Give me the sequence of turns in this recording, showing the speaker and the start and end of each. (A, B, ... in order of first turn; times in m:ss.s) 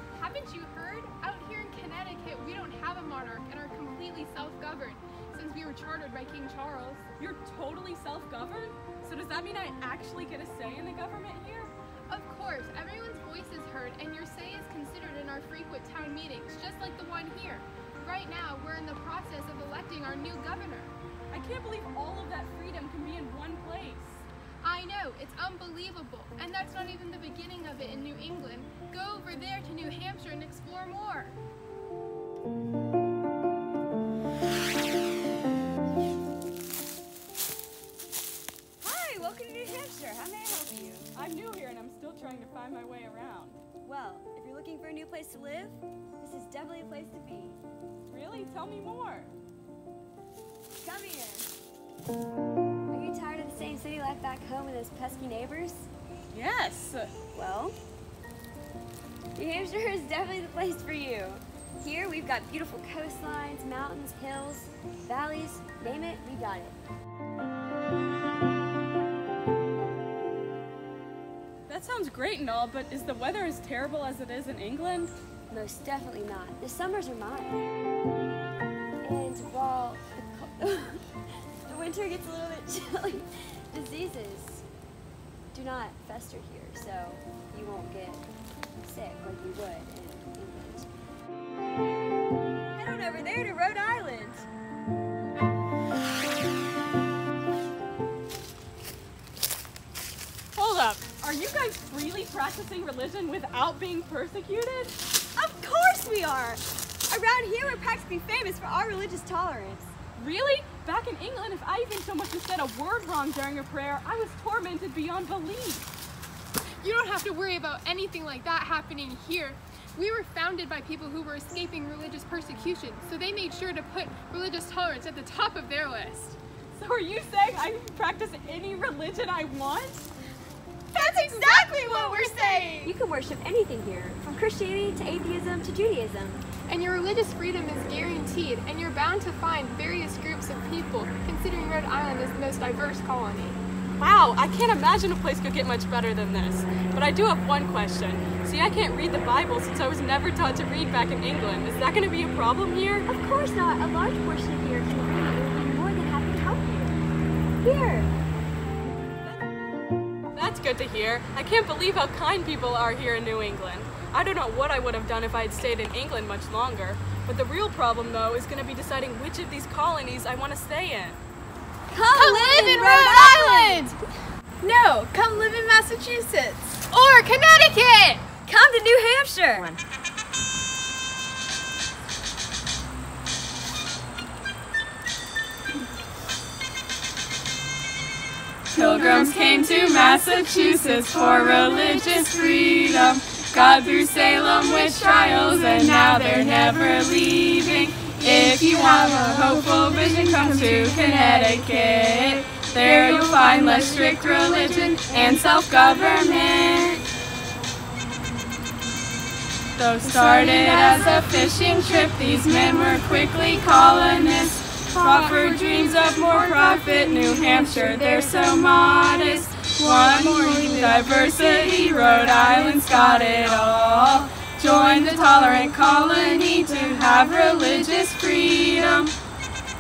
0:00.1-0:07.0 A
0:07.2-0:11.7 B
0:12.1-0:21.0 A
0:21.3-0:24.2 B
0:24.6-0:31.4 A
0:38.8-0:41.1 C
0:41.1-0:43.6 B
0:43.8-0:47.6 C
0:48.1-0:49.3 B
0:50.8-0:51.5 C
0:52.9-0:55.9 C
0:56.3-0:57.1 B
0:57.3-0:57.8 C
0:59.3-1:06.8 C
1:11.7-1:15.1 B
1:15.5-1:17.6 C
1:19.0-1:21.1 C
1:21.7-1:24.6 C
1:25.5-1:28.3 C
1:28.8-1:30.9 C
1:32.7-1:34.5 C
1:40.6-1:45.0 B
1:45.3-1:49.9 C
1:50.2-1:55.9 B
1:56.8-2:06.4 A
2:06.7-2:10.1 B
2:10.9-2:13.0 A
2:11.0-2:16.4 C
2:16.7-2:23.6 A
2:24.0-2:33.1 B
2:33.1-2:37.0 C
2:37.6-2:38.1 C
2:40.3-2:51.2 B
2:51.9-2:54.0 C
2:52.1-2:53.9 A
2:54.6-2:56.8 D
2:56.8-2:58.2 A
2:58.4-2:59.8 C
3:08.7-3:27.0 E
3:29.8-3:49.1 E
3:30.3-3:31.0 A
3:35.0-3:35.3 A
3:35.2-3:37.8 B
3:39.9-3:40.1 B
3:40.4-3:40.8 A